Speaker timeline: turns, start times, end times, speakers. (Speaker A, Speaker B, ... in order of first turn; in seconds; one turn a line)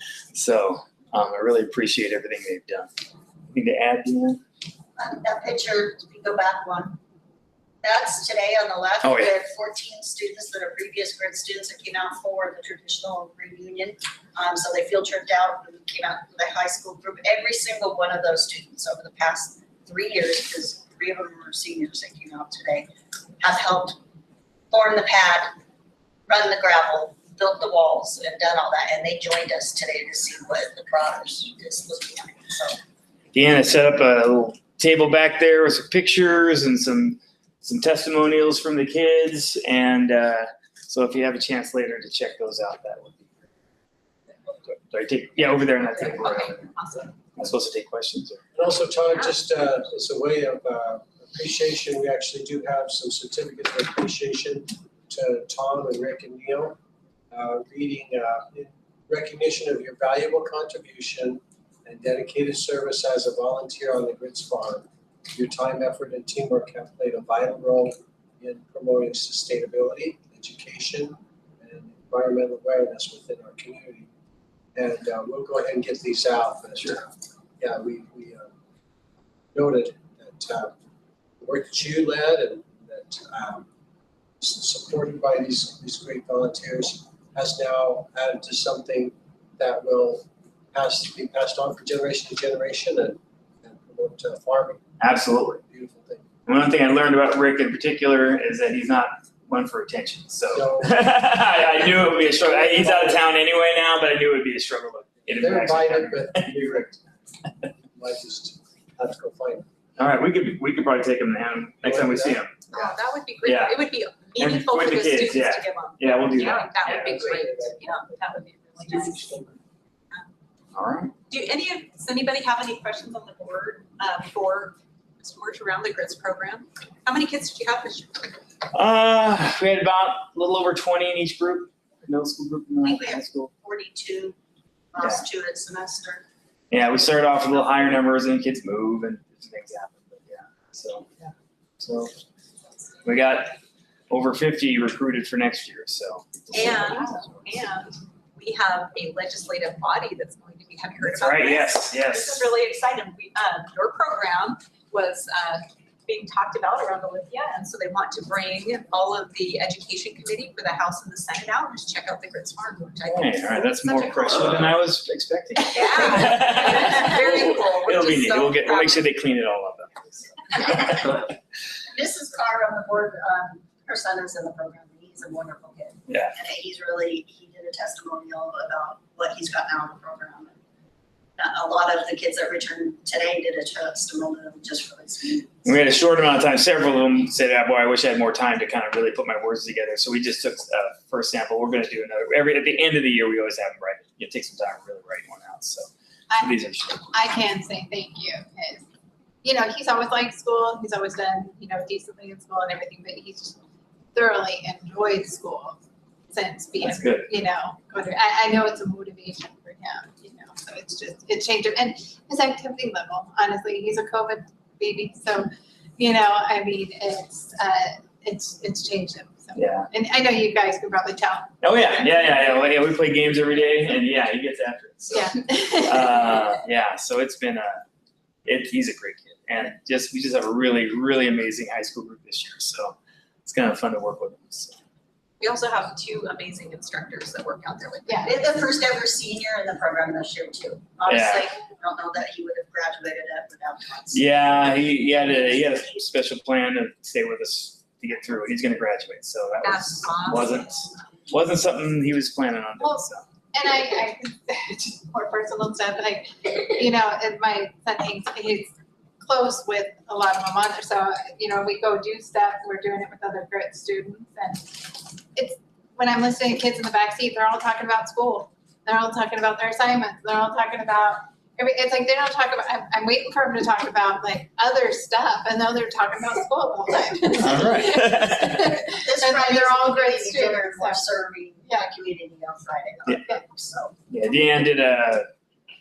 Speaker A: 0.3-2.9
Speaker A: 3.5-4.4
Speaker B: 5.0-7.0
Speaker B: 7.8-22.9
Speaker A: 9.0-9.3
Speaker B: 23.4-24.0
Speaker B: 24.7-25.6
Speaker B: 26.3-32.8
Speaker A: 33.3-43.4
Speaker A: 44.7-46.7
Speaker C: 46.0-47.1
Speaker A: 47.4-48.4
Speaker D: 48.5-56.8
Speaker D: 57.3-74.1
Speaker D: 74.8-78.5
Speaker D: 79.5-80.7
Speaker D: 81.4-83.7
Speaker D: 84.4-94.8
Speaker A: 95.0-95.6
Speaker D: 95.7-96.3
Speaker A: 96.5-107.0
Speaker D: 100.5-101.0
Speaker D: 102.1-103.2
Speaker D: 105.3-107.0
Speaker D: 107.9-109.7
Speaker A: 110.0-112.7
Speaker D: 111.8-112.9
Speaker C: 112.7-119.3
Speaker A: 113.4-113.8
Speaker A: 114.4-117.2
Speaker D: 116.4-118.2
Speaker D: 118.8-119.6
Speaker A: 120.7-121.1
Speaker C: 121.3-128.3
Speaker A: 128.7-133.5
Speaker B: 132.8-134.4
Speaker B: 134.9-136.2
Speaker A: 136.7-142.1
Speaker A: 143.0-143.6
Speaker A: 144.1-147.5
Speaker C: 146.5-164.6
Speaker A: 151.1-152.4
Speaker A: 163.1-171.3
Speaker C: 165.7-169.1
Speaker B: 171.9-180.6
Speaker A: 176.1-176.3
Speaker B: 181.4-185.7
Speaker A: 185.7-195.9
Speaker A: 196.4-197.2
Speaker E: 197.1-198.9
Speaker E: 199.4-203.6
Speaker E: 204.1-215.5
Speaker A: 206.8-207.3
Speaker E: 216.0-221.6
Speaker A: 219.6-219.9
Speaker A: 221.6-227.8
Speaker E: 225.1-226.4
Speaker A: 228.4-234.8
Speaker C: 235.4-238.3
Speaker E: 238.1-238.3
Speaker B: 238.2-244.3
Speaker A: 241.1-241.5
Speaker A: 244.1-253.2
Speaker B: 245.0-246.0
Speaker C: 249.6-250.7
Speaker E: 252.8-281.1
Speaker A: 277.4-278.8
Speaker B: 278.9-283.9
Speaker A: 284.1-285.3